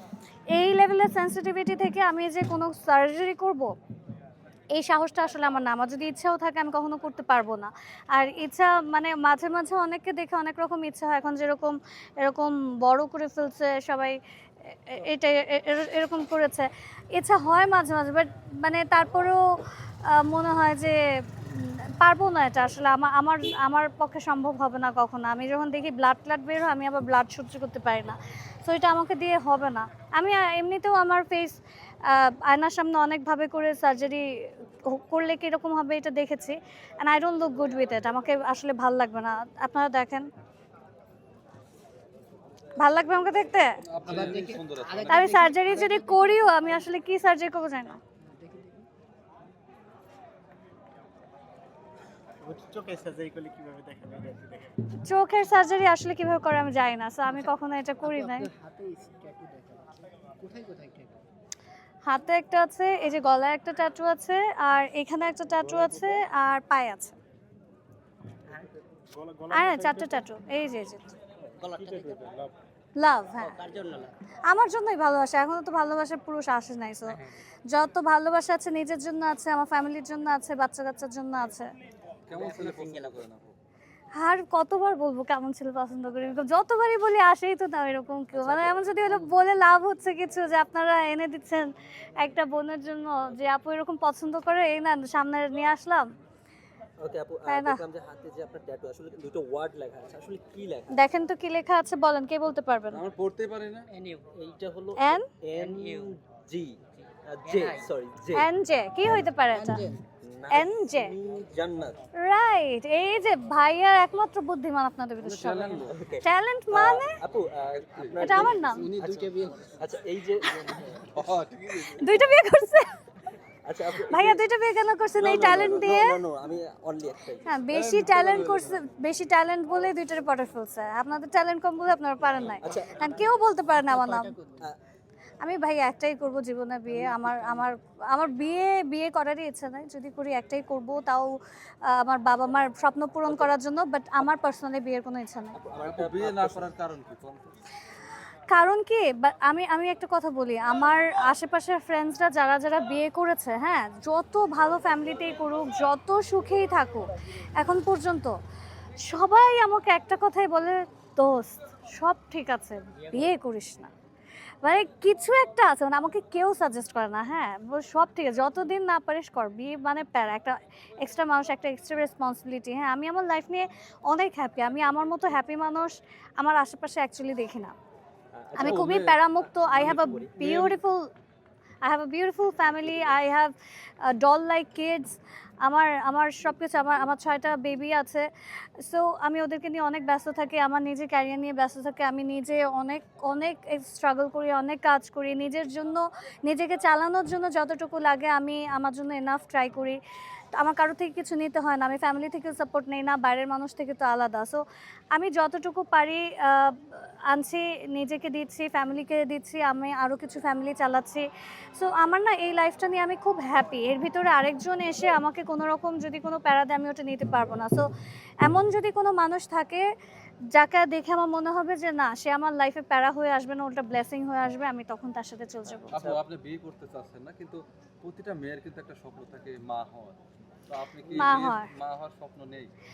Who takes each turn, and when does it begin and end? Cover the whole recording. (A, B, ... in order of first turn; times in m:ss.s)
0:00.5-0:03.7 A
0:04.7-0:40.3 A
0:42.8-0:43.8 A
0:43.9-0:45.7 B
0:44.0-0:46.6 C
0:45.1-0:48.0 A
0:48.2-0:48.9 C
0:52.4-0:54.7 D
0:55.0-0:58.5 A
0:57.3-1:01.2 C
1:02.0-1:07.2 A
1:05.6-1:06.2 D
1:09.1-1:10.2 D
1:09.5-1:11.2 A
1:11.6-1:12.5 D
1:11.7-1:12.2 E
1:13.0-1:13.7 A
1:13.6-1:14.1 E
1:13.9-1:14.1 C
1:14.5-1:21.7 A
1:22.3-1:23.6 B
1:22.3-1:23.2 C
1:24.1-1:36.1 A
1:28.3-1:28.8 E
1:37.0-1:41.0 E
1:37.5-1:37.8 A
1:40.9-1:43.0 A
1:42.9-1:43.9 B
1:43.9-1:44.3 C
1:44.3-1:48.5 E
1:45.0-1:45.3 A
1:45.5-1:46.2 C
1:46.9-1:47.9 C
1:48.3-1:49.9 A
1:49.5-1:50.0 C
1:50.2-1:52.0 E
1:50.5-1:51.1 A
1:52.2-1:57.2 A
1:55.2-1:56.1 B
1:55.9-1:58.7 E
1:57.9-1:59.3 B
1:58.2-1:58.9 A
1:58.6-1:59.8 C
1:59.8-2:00.8 E
2:00.5-2:01.1 C
2:01.1-2:02.3 B
2:01.7-2:02.9 A
2:03.6-2:04.4 E
2:04.0-2:06.2 A
2:05.2-2:07.6 E
2:07.5-2:14.3 A
2:07.7-2:08.8 B
2:12.4-2:14.7 C
2:12.6-2:13.1 E
2:15.4-2:25.6 A
2:16.9-2:17.7 C
2:23.2-2:23.6 E
2:25.5-2:26.7 E
2:25.8-2:27.6 B
2:28.5-2:38.4 A
2:39.0-2:43.9 A
2:44.6-2:57.8 A
2:58.3-3:00.4 E
2:58.5-3:01.1 A
2:58.6-2:59.2 B
3:00.4-3:00.8 B
3:01.8-3:08.3 A
3:08.8-3:20.0 A
3:20.5-3:24.6 A
3:25.1-3:37.9 A
3:38.4-3:39.9 A
3:40.5-3:45.9 A
3:45.7-3:46.2 E
3:45.9-3:50.2 B
3:50.7-3:52.7 B
3:51.2-3:51.7 A